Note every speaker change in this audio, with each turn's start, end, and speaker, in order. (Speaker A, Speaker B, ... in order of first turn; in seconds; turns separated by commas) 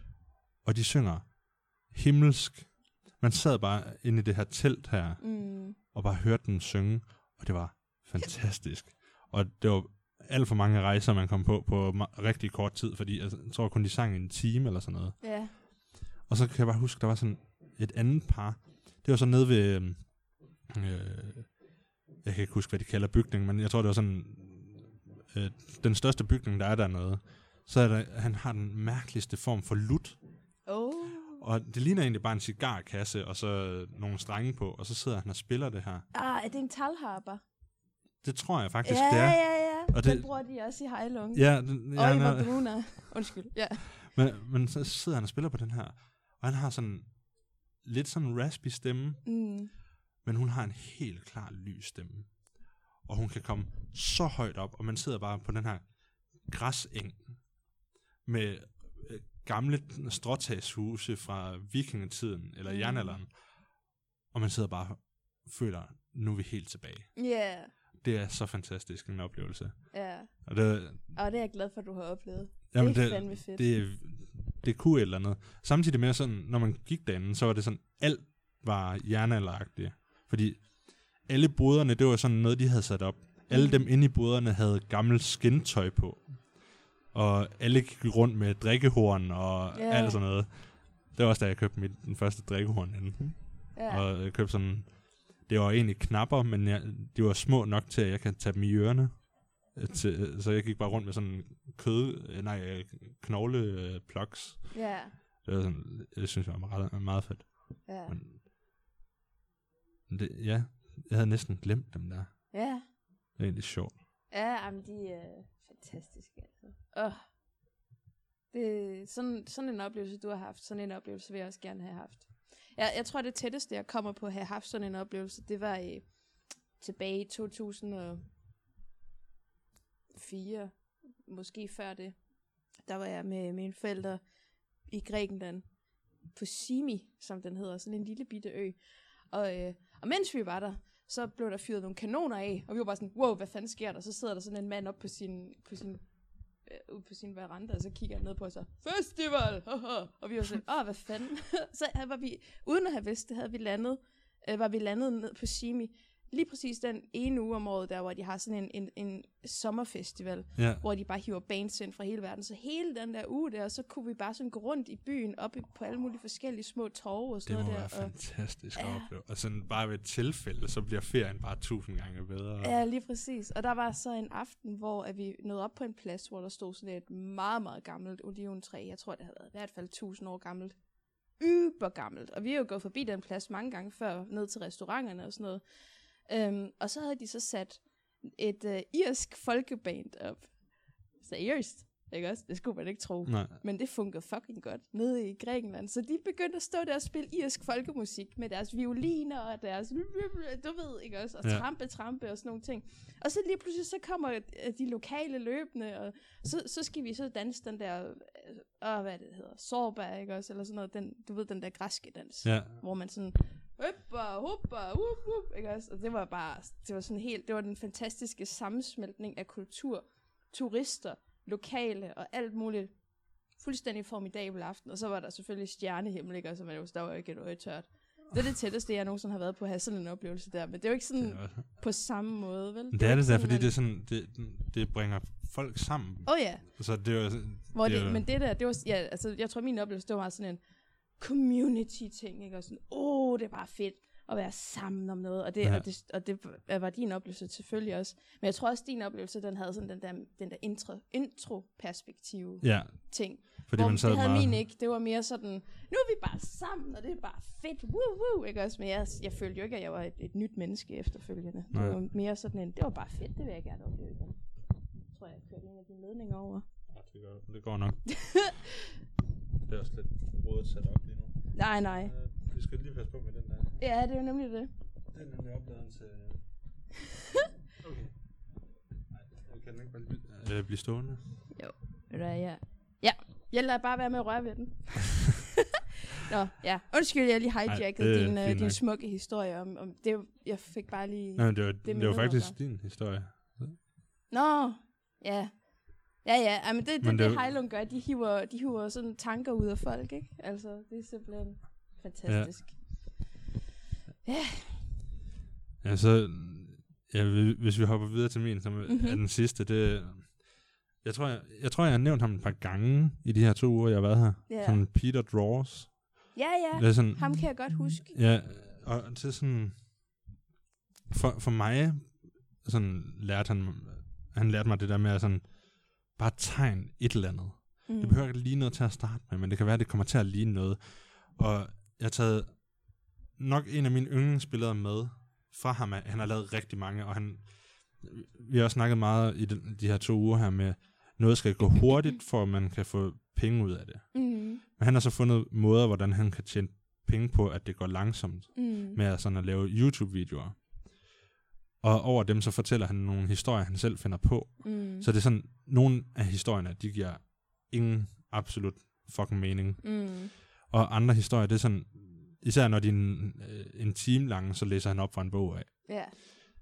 Speaker A: 0.6-30.2, Speaker B: 5.2-5.8, Speaker B: 15.2-15.6, Speaker B: 30.7-31.4, Speaker A: 31.4-36.0, Speaker B: 36.1-37.4, Speaker A: 38.2-40.3, Speaker B: 38.8-44.0, Speaker A: 41.3-43.4, Speaker A: 44.0-49.3, Speaker B: 49.2-49.7, Speaker A: 50.2-57.6, Speaker A: 58.2-67.3, Speaker B: 62.7-63.2, Speaker B: 67.1-67.7, Speaker A: 68.0-71.1, Speaker B: 69.9-73.7, Speaker A: 72.7-108.4, Speaker B: 83.5-83.9, Speaker B: 89.7-90.2, Speaker B: 93.7-94.1, Speaker B: 104.7-105.2, Speaker B: 107.9-108.2, Speaker A: 110.1-112.5, Speaker B: 112.5-112.9, Speaker A: 113.4-114.0, Speaker B: 114.3-117.2, Speaker B: 118.5-126.2, Speaker B: 126.8-128.2, Speaker B: 130.1-132.2, Speaker B: 132.8-134.2, Speaker B: 134.8-135.7, Speaker B: 136.3-138.8, Speaker B: 139.3-146.1, Speaker B: 146.6-169.1, Speaker A: 160.6-160.8, Speaker A: 167.4-172.8, Speaker B: 172.6-180.8, Speaker B: 181.4-233.7, Speaker A: 193.2-193.6, Speaker A: 212.4-212.8, Speaker A: 231.2-231.7, Speaker A: 232.9-238.3, Speaker B: 236.2-236.9, Speaker B: 237.7-240.6, Speaker B: 241.2-264.4, Speaker A: 252.6-254.6, Speaker A: 261.7-262.0, Speaker B: 265.1-266.6, Speaker A: 266.9-268.2, Speaker B: 268.1-269.0, Speaker A: 269.6-273.8, Speaker B: 271.5-272.1, Speaker B: 273.8-274.7, Speaker A: 275.1-276.4, Speaker A: 277.8-278.3, Speaker A: 279.1-281.5, Speaker B: 281.5-285.6, Speaker B: 286.2-292.6, Speaker A: 287.7-288.8, Speaker A: 291.4-293.9, Speaker B: 294.3-303.4, Speaker A: 297.0-297.4, Speaker A: 302.3-302.9, Speaker B: 304.2-304.9, Speaker A: 305.8-320.0, Speaker B: 308.9-309.2, Speaker B: 314.5-314.8, Speaker B: 316.3-318.2, Speaker A: 321.1-351.0, Speaker B: 327.9-328.2, Speaker B: 344.1-344.6, Speaker B: 348.6-349.0, Speaker A: 351.8-365.9, Speaker B: 354.6-355.1, Speaker B: 359.8-360.3, Speaker B: 365.8-366.1